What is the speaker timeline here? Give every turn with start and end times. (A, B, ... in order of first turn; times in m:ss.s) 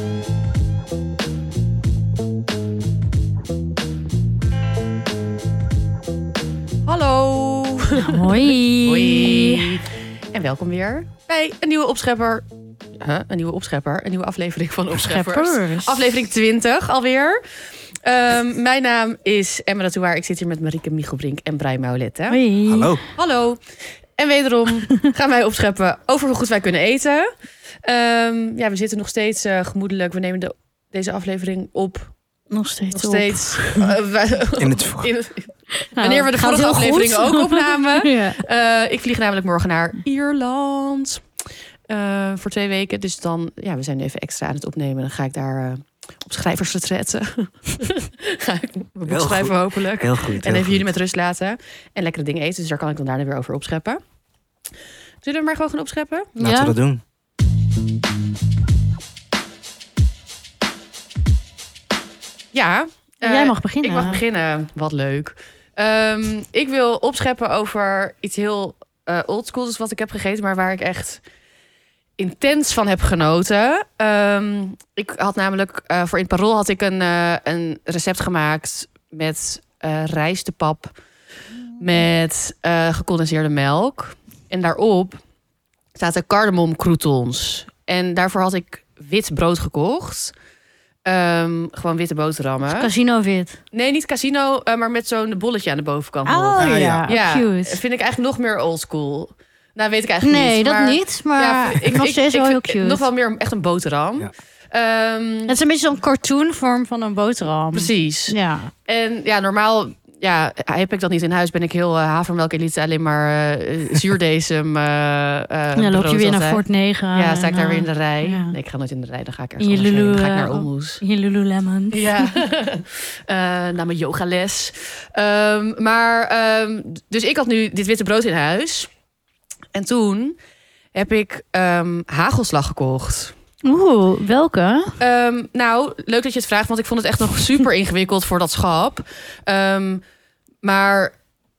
0:06.9-0:12.4 A
0:08.0-0:09.8 B
0:13.0-0:17.4 A
0:14.9-0:16.2 B
0:18.0-0:22.4 A
0:22.3-0:23.0 B
0:22.7-0:23.0 C
0:23.2-0:23.6 A
0:24.2-0:27.3 A
0:27.8-0:32.1 A
0:32.5-0:33.9 B
0:32.9-0:41.2 A
0:34.6-0:35.1 C
0:35.8-0:38.4 B
0:41.9-0:54.0 A
0:49.1-0:50.9 C
0:55.2-0:56.4 A
0:56.4-0:56.8 B
0:56.4-0:57.0 C
1:02.5-1:11.2 A
1:03.2-1:04.2 B
1:12.2-1:20.9 A
1:21.8-1:25.2 A
1:26.0-1:30.3 A
1:31.1-1:32.9 A
1:32.6-1:33.6 B
1:33.7-1:45.6 A
1:36.3-1:37.8 B
1:36.6-1:37.1 C
1:40.2-1:43.0 B
1:45.5-1:48.7 B
1:47.7-1:48.4 A
1:48.9-2:01.0 A
1:55.8-1:58.6 B
1:59.6-2:02.4 B
2:01.9-2:08.9 A
2:09.7-2:10.4 A
2:10.9-2:13.3 A
2:13.6-2:15.0 B
2:15.0-2:20.0 A
2:20.6-2:21.2 A